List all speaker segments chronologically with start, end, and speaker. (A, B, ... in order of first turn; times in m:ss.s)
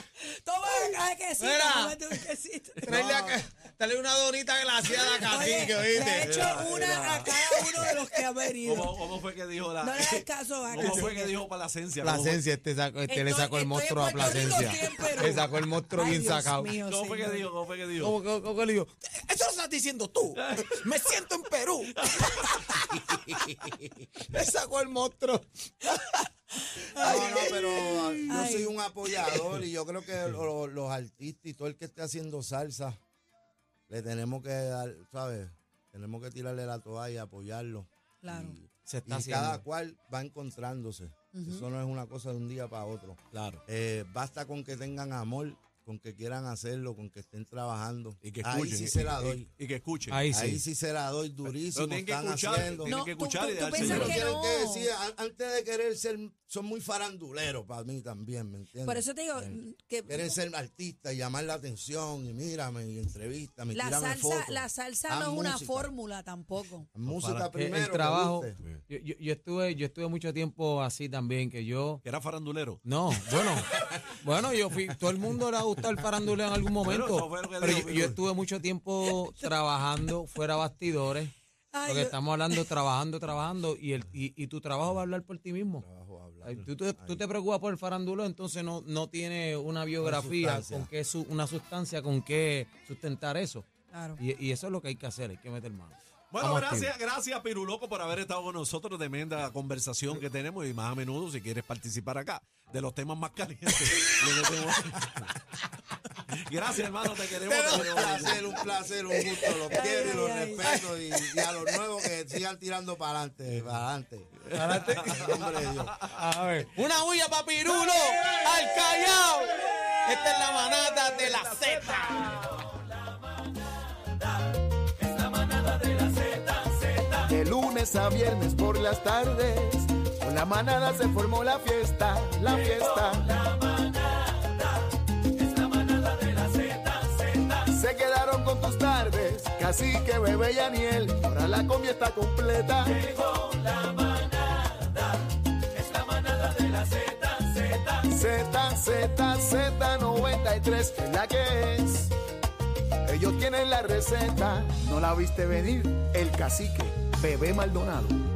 0:00.2-0:02.8 A
0:01.4-0:02.1 B
0:02.8-0:08.3 B
0:02.9-0:03.4 C
0:04.9-0:09.0 A
0:06.2-0:07.3 D
0:08.6-0:12.4 D
0:09.8-0:11.4 A
0:10.8-0:11.1 B
0:12.0-0:16.8 B
0:13.1-0:17.5 A
0:16.8-0:18.2 D
0:18.0-0:26.0 B
0:20.4-0:20.8 D
0:22.0-0:22.6 D
0:26.9-0:28.3 B
0:26.9-0:28.8 A
0:27.0-0:33.0 C
0:33.9-0:49.5 C
0:38.2-0:38.5 A
0:38.9-0:39.6 B
0:41.3-0:41.6 A
0:43.3-0:43.6 D
0:48.2-0:50.2 D
0:50.1-0:50.6 B
0:50.3-0:53.0 C
0:51.5-0:54.4 D
0:52.8-0:54.9 A
0:53.7-1:05.9 C
0:58.8-1:00.4 A
1:03.7-1:06.9 A
1:06.9-1:08.6 C
1:07.0-1:07.5 D
1:07.5-1:12.0 B
1:12.0-1:12.8 D
1:12.8-1:21.3 B
1:16.8-1:18.2 D
1:19.0-1:19.5 A
1:21.7-1:22.7 A
1:21.9-1:25.8 B
1:25.8-1:27.2 C
1:26.4-1:36.9 B
1:30.0-1:30.9 C
1:33.9-1:34.2 A
1:36.3-1:45.3 D
1:43.9-1:45.0 B
1:46.3-1:48.4 D
1:47.3-1:52.1 B
1:47.7-1:56.0 C
1:49.7-1:50.7 A
1:54.5-1:56.2 D
1:54.5-1:55.5 B
1:56.1-2:02.4 B
2:02.0-2:02.4 D
2:05.0-2:07.2 D
2:07.2-2:13.4 E
2:12.5-2:14.3 D
2:15.4-2:17.5 D
2:17.6-2:23.0 E
2:22.9-2:25.0 D
2:25.7-2:28.0 D
2:27.9-2:32.1 E
2:33.0-2:38.2 E